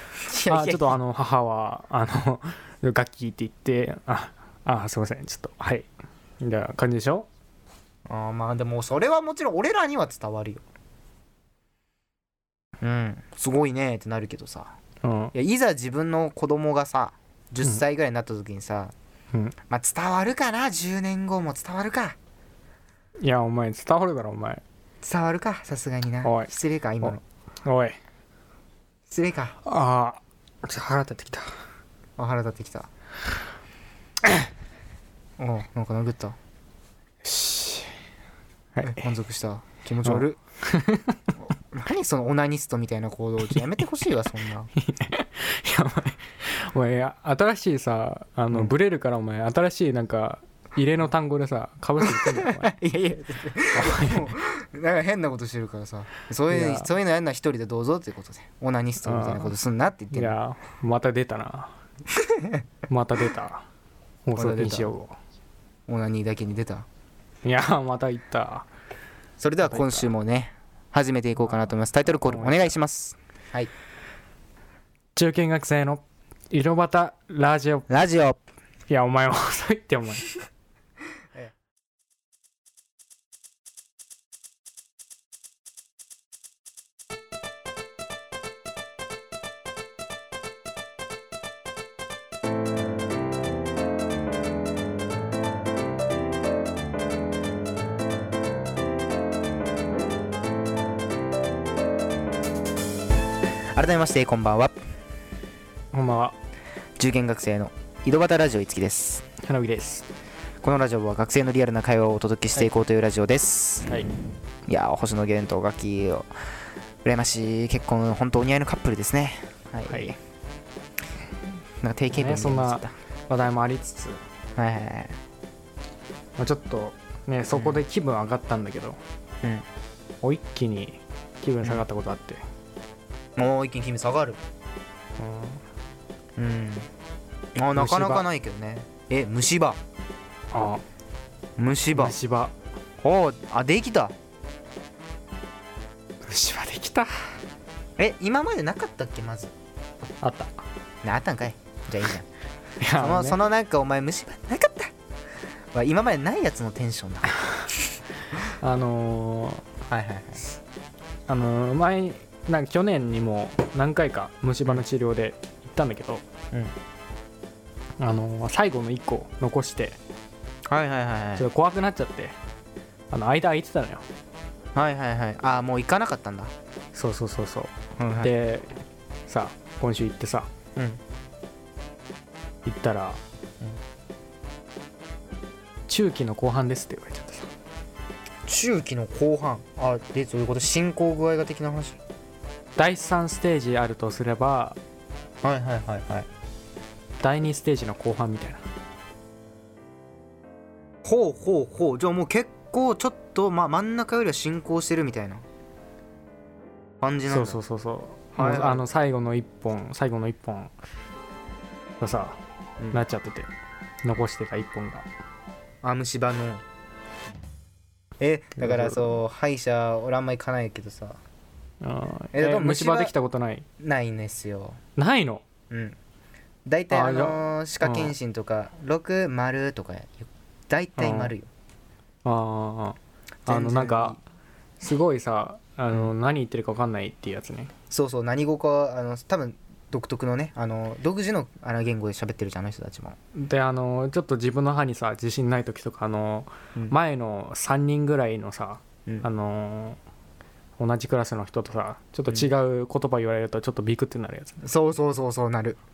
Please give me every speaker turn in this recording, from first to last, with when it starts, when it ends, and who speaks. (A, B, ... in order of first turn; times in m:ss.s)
0:00.2-0:00.9 A
0:00.5-0:05.9 B
0:06.4-0:07.3 B
0:08.1-0:10.6 A
0:12.8-0:14.8 A
0:15.0-0:15.3 B
0:15.3-0:18.9 A
0:19.7-0:22.2 A
0:23.2-0:24.6 B
0:25.0-0:27.2 A
0:26.2-0:28.0 B
0:29.1-0:29.6 A
0:29.7-0:31.5 B
0:32.2-0:32.9 A
0:35.4-0:36.4 A
0:37.2-0:37.9 B
0:38.8-0:39.0 B
0:38.8-0:40.4 A
0:40.0-0:41.2 B
0:41.7-0:44.7 A
0:44.8-0:52.7 B
0:52.0-1:00.4 A
0:53.7-0:54.3 B
0:56.5-0:56.9 B
0:59.0-0:59.5 B
1:00.1-1:01.8 B
1:02.2-1:02.6 A
1:02.9-1:03.7 B
1:04.2-1:05.2 B
1:04.4-1:04.9 A
1:05.9-1:06.9 A
1:07.4-1:08.7 B
1:09.4-1:13.7 A
1:09.7-1:10.1 B
1:12.2-1:12.7 B
1:15.2-1:17.9 B
1:17.9-1:18.4 A
1:18.9-1:20.3 B
1:43.8-1:44.8 A
1:45.9-1:46.4 B
1:47.0-1:49.2 A
1:49.4-1:50.1 B
1:50.6-1:54.0 A
1:54.7-1:56.3 A
1:57.0-2:00.2 A
1:59.9-2:00.2 B
2:01.8-2:02.9 A
2:02.1-2:04.2 B
2:04.6-2:05.2 A
2:06.4-2:09.0 B
2:07.5-2:07.8 A
2:10.2-2:12.4 B
2:13.4-2:14.4 A
2:15.2-2:15.6 B
2:16.4-2:16.9 A
2:17.6-2:19.8 A
2:17.8-2:18.2 B
2:20.5-2:20.8 B
2:21.6-2:22.2 A
2:21.9-2:22.5 B
2:23.0-2:24.1 A
2:26.2-2:27.1 B
2:28.0-2:29.5 A
2:30.2-2:30.6 B
2:31.0-2:32.2 A
2:32.8-2:33.4 B
2:33.0-2:34.9 A
2:35.7-2:37.4 A
2:38.5-2:39.6 B
2:39.9-2:40.4 A
2:41.3-2:46.2 B
2:48.0-2:50.0 B
2:50.7-2:51.5 A
2:51.4-2:52.4 B
2:53.1-2:54.0 B
2:54.8-2:56.5 A
2:56.9-2:58.7 B
2:58.0-2:58.3 A
2:59.3-3:00.5 B
3:02.6-3:03.2 B
3:05.9-3:07.5 B
3:08.5-3:12.0 A
3:12.8-3:14.8 B
3:15.4-3:16.3 A
3:17.2-3:18.6 B
3:21.0-3:25.4 A
3:27.0-3:27.6 A
3:27.3-3:30.7 B
3:28.4-3:28.9 A
3:32.0-3:32.4 B
3:32.8-3:33.0 A
3:32.9-3:33.5 B
3:34.0-3:35.1 B
3:35.8-3:36.6 A
3:38.2-3:41.2 A
3:38.6-3:39.1 B
3:41.8-3:43.6 B
3:42.3-3:43.1 A
3:43.8-3:44.8 A
3:45.0-3:45.4 B
3:45.7-3:46.0 A
3:46.6-3:51.5 A
3:46.9-3:48.1 B
3:51.0-3:51.3 B
3:52.2-3:54.2 B
3:53.5-3:54.2 A
3:54.8-3:57.7 B
3:57.9-4:03.2 A
4:03.4-4:10.0 B
4:10.8-4:14.6 B
4:14.6-4:15.8 A